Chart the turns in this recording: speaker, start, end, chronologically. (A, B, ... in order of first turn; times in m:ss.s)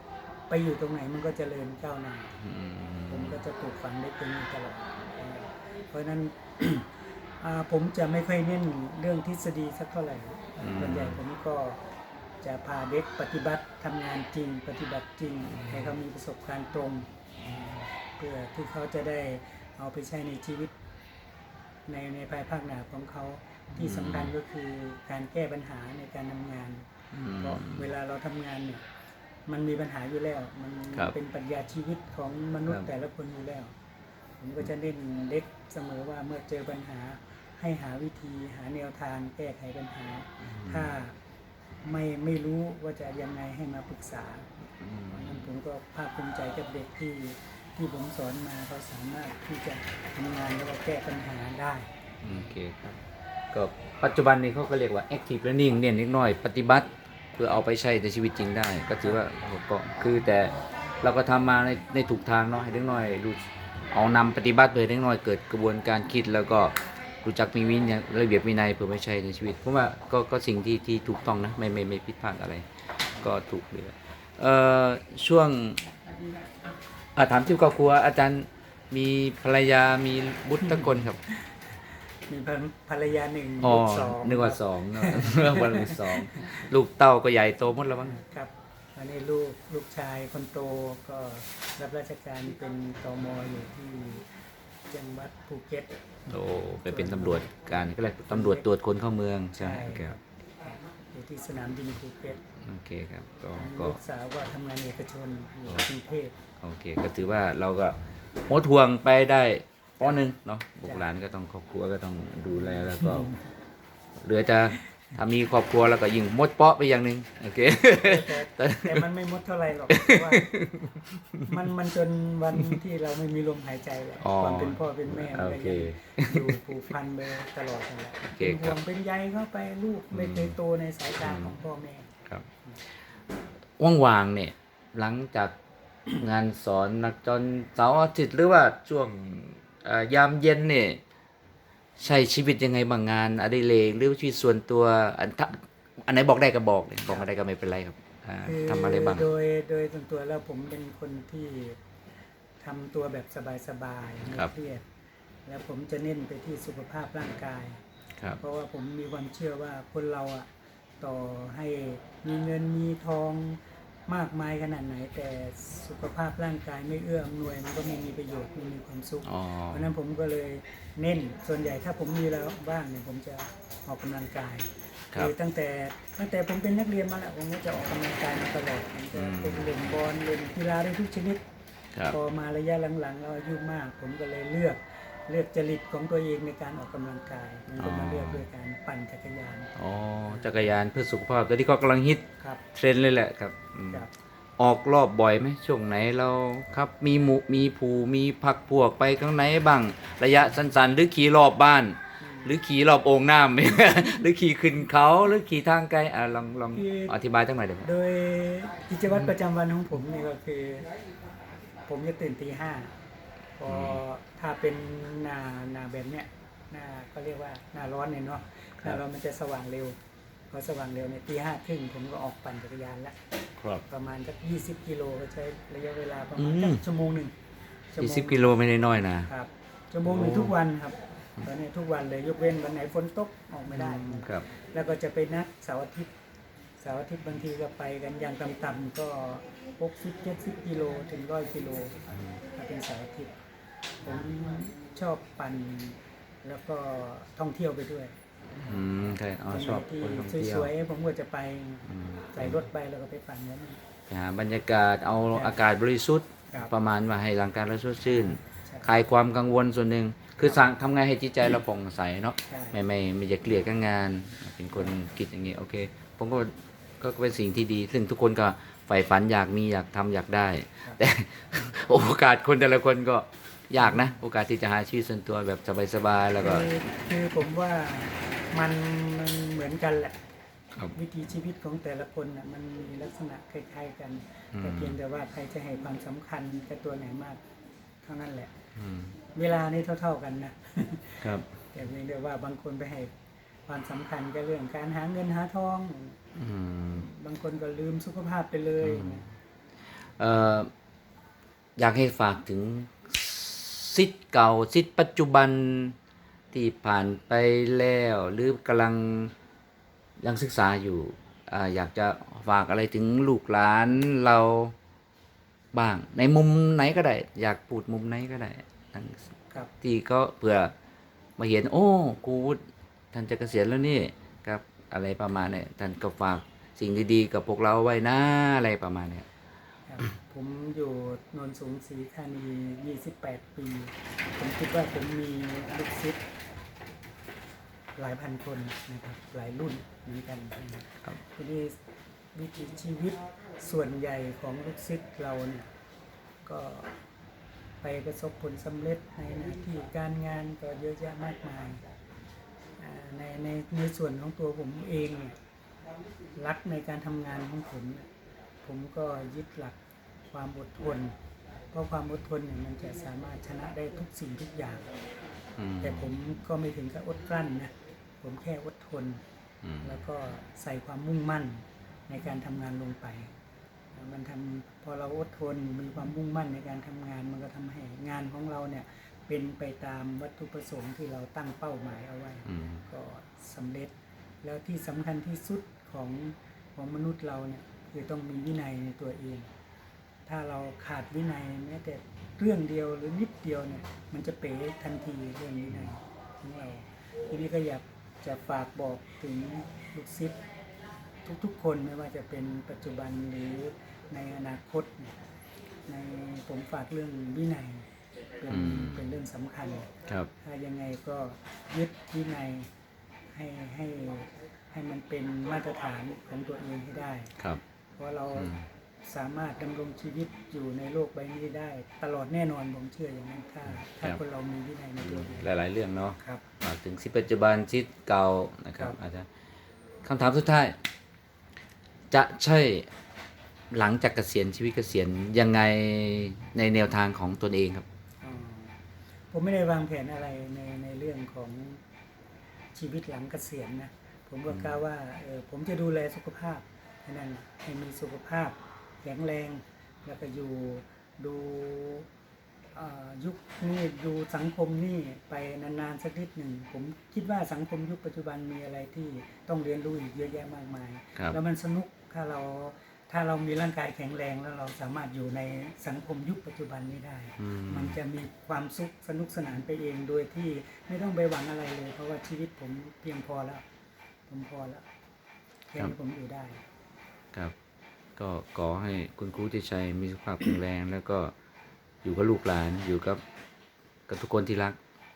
0:00.5-0:02.3 A
0:02.4-0:03.4 B
0:03.1-0:11.8 A
0:10.6-0:11.2 B
0:12.4-0:20.7 A
0:15.5-0:15.8 B
0:21.9-0:28.8 A
0:23.8-0:24.3 B
0:27.1-0:27.9 B
0:29.5-0:33.7 A
0:34.4-0:41.2 A
0:40.4-0:40.9 B
0:41.8-0:44.5 A
0:44.8-0:45.5 B
0:45.1-0:51.9 A
0:52.2-0:53.0 B
0:53.5-1:15.8 B
1:17.2-1:21.2 B
1:20.6-1:21.8 A
1:22.3-1:26.6 A
1:23.6-1:28.2 B
1:28.1-1:34.3 A
1:34.9-1:36.0 A
1:36.3-1:40.2 B
1:36.9-1:37.8 A
1:38.3-1:38.7 A
1:39.6-1:42.4 A
1:42.6-1:44.0 B
1:43.6-1:46.4 A
1:46.6-1:48.0 B
1:48.5-1:53.3 B
1:50.8-1:51.1 A
1:52.5-1:53.4 A
1:54.2-1:59.0 B
1:57.9-2:00.5 A
1:59.9-2:01.5 B
2:01.5-2:12.1 A
2:04.2-2:06.6 B
2:08.2-2:08.8 B
2:10.1-2:10.6 B
2:11.2-2:11.5 B
2:13.8-2:15.6 B
2:16.1-2:21.0 B
2:22.0-2:29.3 B
2:28.4-2:31.8 A
2:32.6-2:34.8 A
2:35.5-2:37.8 A
2:38.4-2:40.5 A
2:41.0-3:01.4 A
2:49.2-2:49.9 B
2:59.1-2:59.7 B
3:02.1-3:09.7 A
3:07.8-3:08.4 B
3:09.8-3:14.0 B
3:10.3-3:10.7 A
3:14.6-3:27.9 B
3:22.2-3:22.6 A
3:26.7-3:27.2 A
3:27.8-3:30.9 A
3:31.9-3:32.9 A
3:33.6-3:40.0 A
3:33.7-3:34.0 B
3:40.5-3:43.2 A
3:43.6-3:43.8 B
3:43.9-3:47.3 A
3:46.4-3:46.8 B
3:47.9-3:56.1 A
3:48.0-3:49.3 B
3:50.0-3:50.5 B
3:53.7-3:54.5 B
3:56.8-4:03.3 A
4:02.1-4:02.4 B
4:04.0-4:08.2 A
4:08.6-4:10.7 B
4:09.5-4:13.8 A
4:11.9-4:12.6 B
4:14.1-4:36.7 B
4:18.1-4:18.9 A
4:22.5-4:22.8 A
4:33.8-4:34.1 A
4:36.4-4:40.2 A
4:40.9-4:47.4 A
4:44.6-4:45.0 B
4:48.0-4:48.5 A
4:48.8-4:49.2 B
4:49.4-4:53.1 A
4:51.2-4:51.5 B
4:53.7-4:56.2 A
4:56.4-4:57.1 B
4:56.9-4:59.2 A
4:58.8-4:59.2 B
5:00.2-5:00.7 B
5:01.8-5:06.0 B
5:06.5-5:09.3 B
5:10.2-5:14.8 B
5:15.7-5:20.7 B
5:21.4-5:22.6 B
5:23.1-5:29.2 B
5:29.9-5:36.2 A
5:38.0-5:41.8 A
5:42.4-5:45.7 A
5:46.4-5:46.9 A
5:47.8-5:51.8 A
5:52.8-5:55.4 A
5:56.4-5:58.1 A
5:58.6-5:59.8 A
6:00.3-6:01.1 A
6:01.7-6:04.9 A
6:05.6-6:06.0 B
6:05.8-6:09.2 A
6:09.6-6:10.0 B
6:09.8-6:13.3 A
6:13.9-6:23.9 A
6:22.5-6:22.9 B
6:24.4-6:29.5 A
6:30.3-6:40.4 A
6:41.2-6:45.2 A
6:45.9-6:47.9 A
6:48.4-6:49.9 A
6:48.5-6:49.0 B
6:50.4-6:52.7 A
6:53.4-6:57.4 A
6:58.0-6:58.5 A
6:58.4-6:58.6 B
6:59.0-7:05.5 A
7:03.7-7:04.2 B
7:05.0-7:09.3 B
7:10.0-7:10.8 B
7:12.1-7:12.9 B
7:13.7-7:17.9 B
7:18.2-7:18.8 A
7:19.3-7:21.8 A
7:22.7-7:32.1 A
7:24.5-7:24.8 B
7:32.7-7:53.6 A
7:47.4-7:48.0 B
7:54.3-7:54.8 A
7:55.7-7:56.6 A
7:58.2-8:01.3 B
8:02.0-8:03.2 B
8:04.1-8:04.8 B